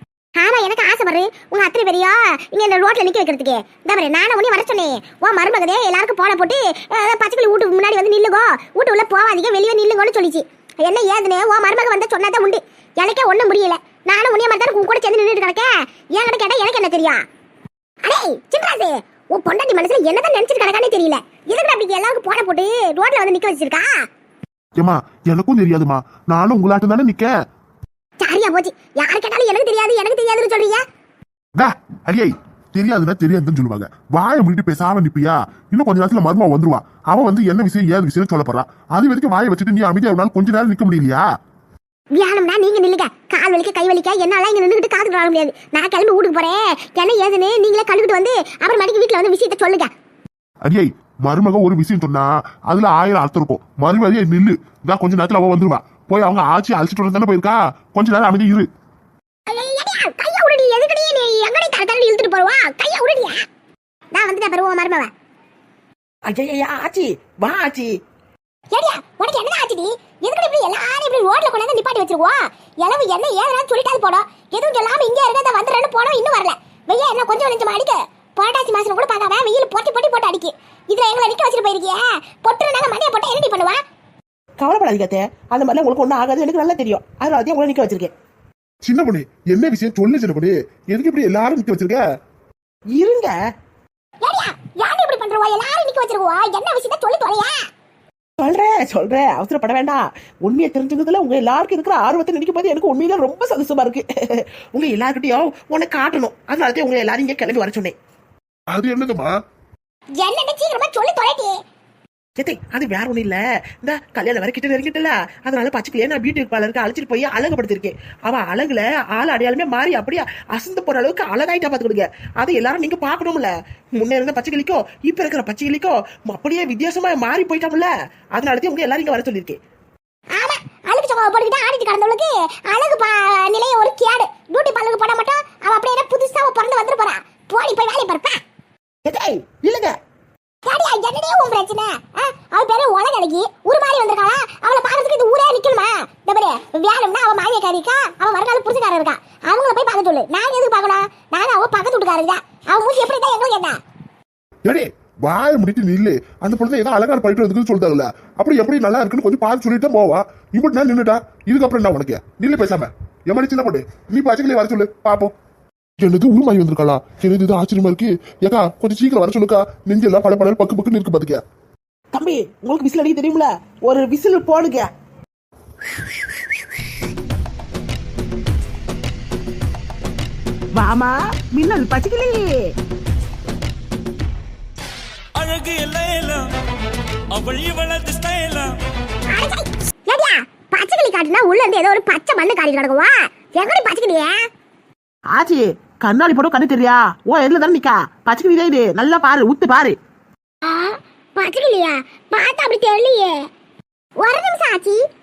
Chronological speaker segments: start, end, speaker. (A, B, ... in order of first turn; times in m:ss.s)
0:00.4-0:17.2 A
0:18.0-0:24.0 A
0:24.8-0:27.3 B
0:28.2-0:30.8 A
0:31.6-0:41.2 B
0:42.2-0:49.9 A
0:50.6-0:58.7 B
0:59.5-1:03.5 A
1:04.1-1:05.1 A
1:06.3-1:07.9 C
1:08.7-1:23.8 A
1:24.6-1:28.1 C
1:28.8-1:32.0 B
1:33.0-1:33.4 C
1:34.2-1:37.7 A
1:38.4-1:48.0 C
1:48.7-1:49.3 B
1:50.2-1:51.6 A
1:52.4-2:09.6 C
2:10.4-2:18.4 A
2:19.1-2:20.0 C
2:20.7-2:33.8 A
2:34.7-2:45.3 B
2:46.0-2:51.4 B
2:52.1-2:54.9 C
3:00.8-3:02.5 C
3:05.4-3:06.6 D
3:07.3-3:08.8 D
3:09.3-3:14.4 A
3:15.3-3:20.0 C
3:20.6-3:23.5 A
3:24.2-3:25.0 A